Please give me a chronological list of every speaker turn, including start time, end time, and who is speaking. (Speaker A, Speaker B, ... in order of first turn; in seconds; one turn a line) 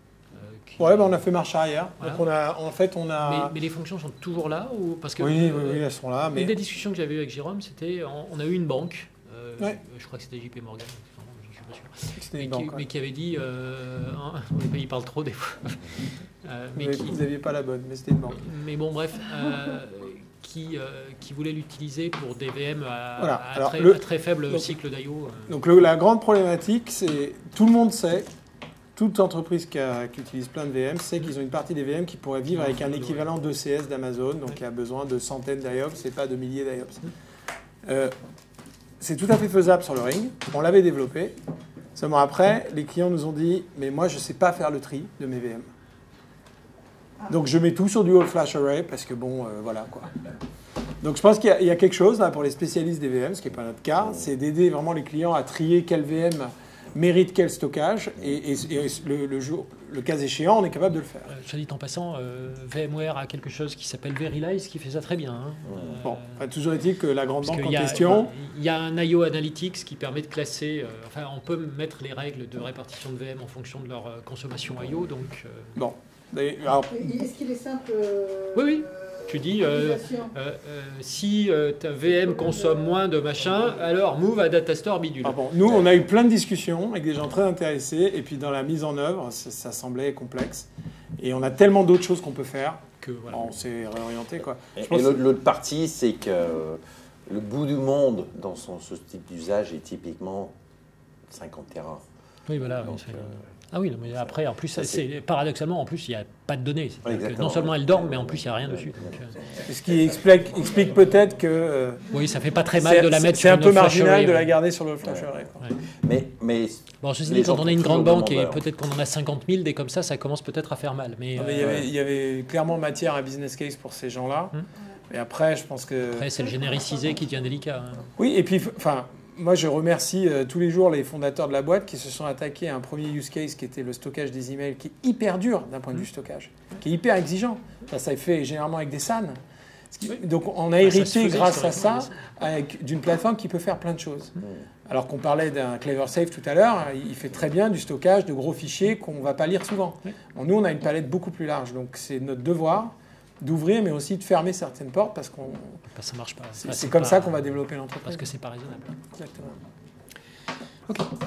Speaker A: 0.3-1.2
Speaker B: 0.8-3.5
Speaker A: 2.0-2.3
Speaker A: 3.2-17.2
Speaker B: 5.2-6.5
Speaker B: 12.1-12.8
Speaker B: 16.8-18.4
Speaker A: 18.3-25.6
Speaker B: 23.2-24.7
Speaker B: 25.5-28.3
Speaker B: 28.9-37.1
Speaker A: 32.5-33.3
Speaker B: 37.8-38.1
Speaker B: 39.0-41.4
Speaker B: 41.9-45.7
Speaker B: 47.3-50.2
Speaker B: 51.0-61.3
Speaker A: 61.3-66.5
Speaker C: 65.7-66.0
Speaker B: 66.0-68.3
Speaker A: 67.4-75.8
Speaker B: 75.7-77.1
Speaker D: 76.8-80.3
Speaker A: 78.5-85.5
Speaker D: 82.1-83.0
Speaker B: 85.2-95.2
Speaker C: 85.6-86.0
Speaker A: 93.0-93.5
Speaker C: 94.8-100.5
Speaker C: 101.3-102.0
Speaker A: 102.5-109.4
Speaker C: 102.7-103.5
Speaker C: 104.1-105.0
Speaker C: 107.0-109.6
Speaker B: 109.7-112.1
Speaker A: 112.1-114.5
Speaker B: 112.8-115.6
Speaker C: 115.0-115.3
Speaker C: 116.0-118.6
Speaker A: 117.0-121.8
Speaker B: 121.3-124.5
Speaker C: 121.6-121.8
Speaker B: 125.1-126.3
Speaker A: 126.1-128.1
Speaker B: 128.2-139.4
Speaker B: 139.9-155.8
Speaker A: 140.8-142.1
Speaker A: 155.9-159.0
Speaker B: 156.6-158.2
Speaker B: 159.2-159.5